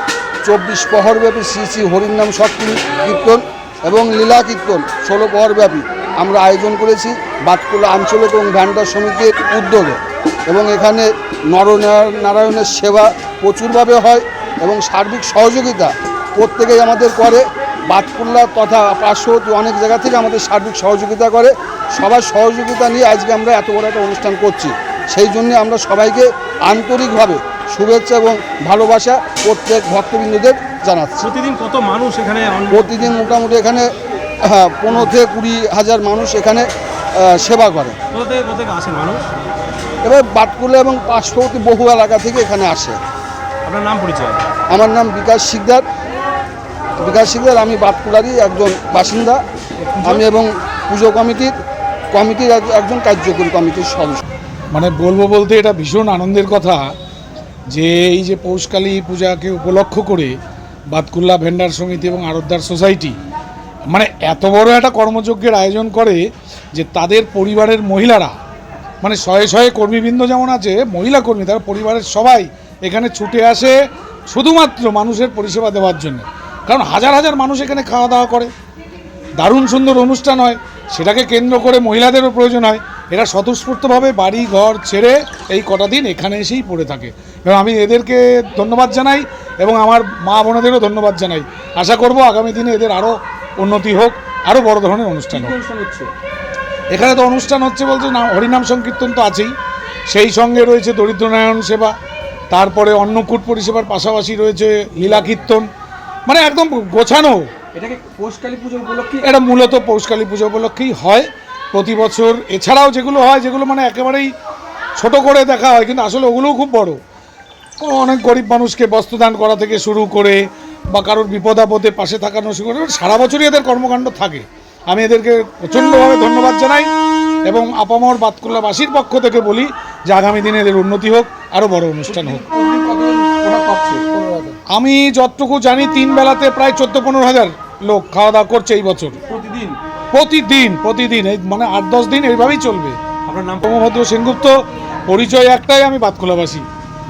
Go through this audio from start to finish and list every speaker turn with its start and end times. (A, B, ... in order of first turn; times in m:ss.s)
0:00.4-0:31.2 A
0:31.2-0:33.2 B
0:32.7-0:33.9 A
0:34.4-0:38.0 A
0:38.1-0:39.3 B
0:40.0-0:43.0 A
0:43.6-0:44.4 B
0:44.7-0:45.8 A
0:47.0-0:49.4 A
0:49.8-0:50.2 B
0:50.0-0:51.6 A
0:52.1-0:54.2 A
0:54.7-0:56.8 C
0:57.7-1:00.3 C
1:00.9-1:03.2 C
1:03.9-1:06.2 C
1:06.7-1:08.3 C
1:09.0-1:13.8 C
1:14.3-1:18.5 C
1:19.4-1:35.5 C
1:35.3-1:36.1 B
1:36.9-1:39.5 C
1:40.1-1:41.9 C
1:42.5-1:45.7 C
1:46.2-1:47.4 C
1:47.7-1:49.2 B
1:49.2-1:54.3 C
1:55.0-1:57.0 C
1:57.8-2:00.4 C
2:00.9-2:06.9 C
2:07.4-2:12.4 C
2:12.1-2:14.6 B
2:14.7-2:19.2 C
2:19.3-2:19.8 B
2:20.1-2:23.0 C
2:23.2-2:23.7 B
2:23.6-2:26.6 C